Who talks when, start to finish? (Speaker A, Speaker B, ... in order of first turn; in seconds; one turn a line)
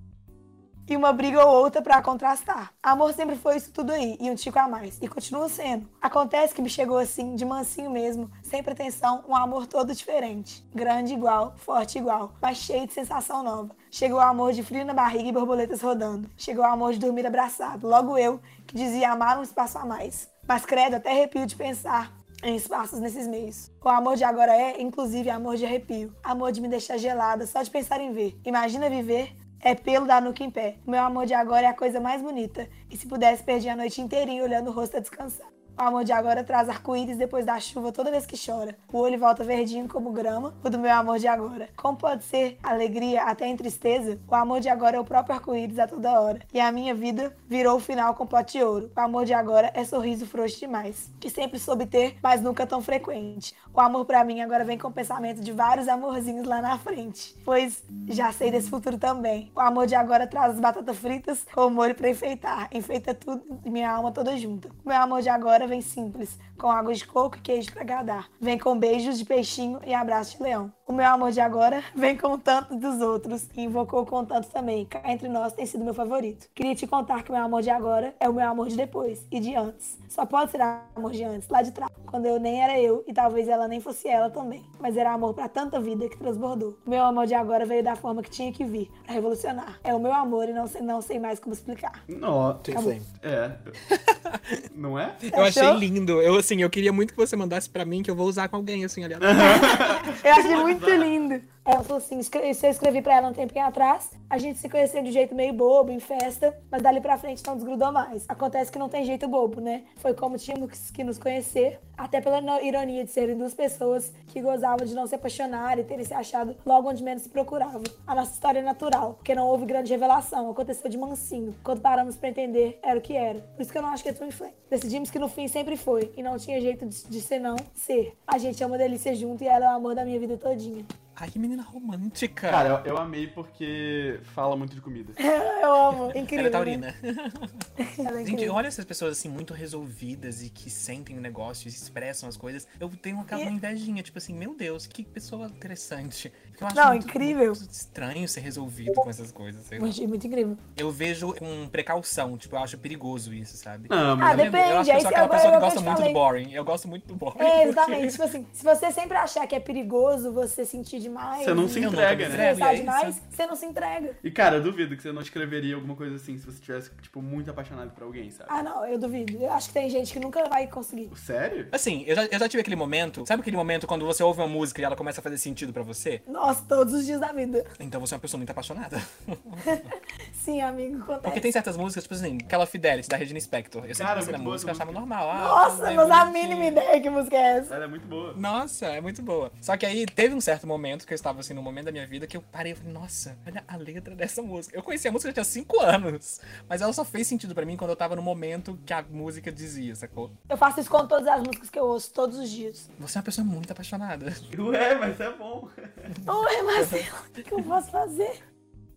Speaker A: 0.9-92.0
Speaker B: 92.1-93.7
Speaker C: 92.6-93.1
Speaker C: 93.9-94.6
Speaker B: 94.7-95.3
Speaker C: 95.2-100.1
Speaker A: 95.3-95.8
Speaker B: 99.2-101.1
Speaker A: 100.2-130.9
Speaker C: 131.2-132.7
Speaker B: 132.5-135.2
Speaker A: 135.2-136.8
Speaker C: 136.1-149.9
Speaker A: 137.8-138.6
Speaker A: 146.7-147.6
Speaker A: 149.8-150.6
Speaker C: 150.8-158.2
Speaker B: 153.9-154.6
Speaker A: 154.2-156.2
Speaker A: 157.4-164.2
Speaker B: 161.4-162.5
Speaker C: 161.8-163.2
Speaker B: 164.2-168.5
Speaker A: 168.5-171.1
Speaker B: 171.1-171.7
Speaker C: 171.7-176.2
Speaker A: 176.3-177.7
Speaker C: 177.8-179.9
Speaker A: 179.6-181.4
Speaker C: 181.2-186.8
Speaker B: 184.0-185.0
Speaker A: 185.3-187.8
Speaker B: 187.7-188.4
Speaker C: 188.4-200.3
Speaker A: 200.5-202.8
Speaker C: 203.0-204.4
Speaker B: 204.5-206.1
Speaker A: 206.3-208.4
Speaker C: 206.8-207.1